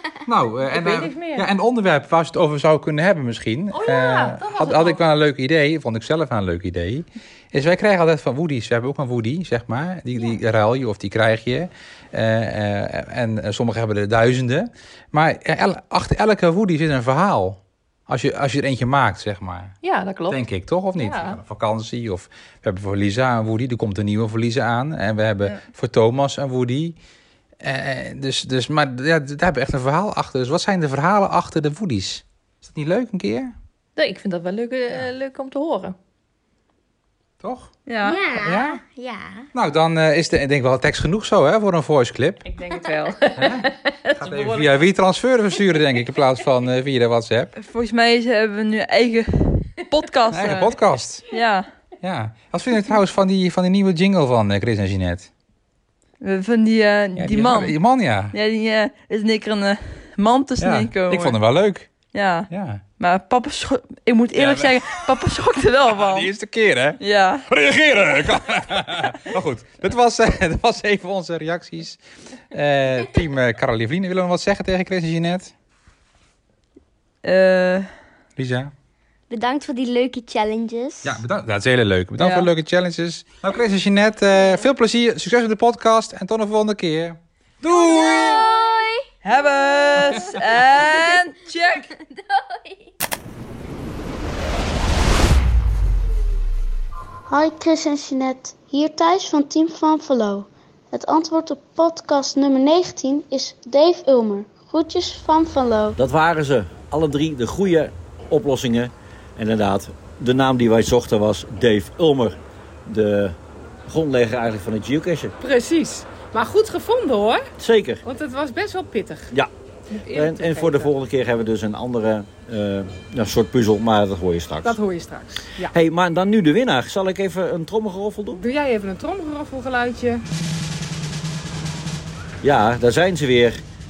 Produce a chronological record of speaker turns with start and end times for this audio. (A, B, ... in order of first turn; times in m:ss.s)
0:00.2-0:19.8 A
0:00.7-0:01.5 B
0:03.7-0:05.0 B
0:19.8-0:20.4 B
0:20.3-0:27.0 A
0:21.0-0:21.4 B
0:27.6-0:33.5 A
0:34.0-0:36.0 B
0:37.4-0:37.7 A
0:37.8-0:38.2 C
0:38.0-0:39.4 D
0:38.4-0:38.8 A
0:39.5-0:42.4 A
0:42.4-0:44.7 B
0:43.4-0:47.5 A
0:47.6-0:50.8 C
0:50.3-0:51.2 A
0:51.3-0:51.7 C
0:52.0-0:55.3 A
0:56.2-0:57.8 C
0:57.2-0:58.3 A
0:58.3-1:01.4 C
1:00.6-1:01.9 A
1:02.1-1:06.3 C
1:02.5-1:02.8 A
1:04.3-1:05.1 A
1:05.9-1:12.0 A
1:07.0-1:07.4 C
1:12.5-1:15.5 A
1:17.2-1:17.9 C
1:18.4-1:18.7 A
1:19.3-1:21.2 D
1:21.0-1:28.4 A
1:22.2-1:22.5 C
1:27.6-1:29.0 D
1:29.2-1:31.9 C
1:30.0-1:30.4 A
1:37.3-1:46.0 E
1:46.0-1:55.3 F
1:55.4-1:57.5 G
1:57.6-1:58.0 F
1:58.0-1:59.3 G
1:59.9-2:00.9 G
2:00.1-2:04.8 F
2:04.6-2:05.7 G
2:05.7-2:08.4 F
2:08.3-2:10.2 G
2:12.4-2:13.6 F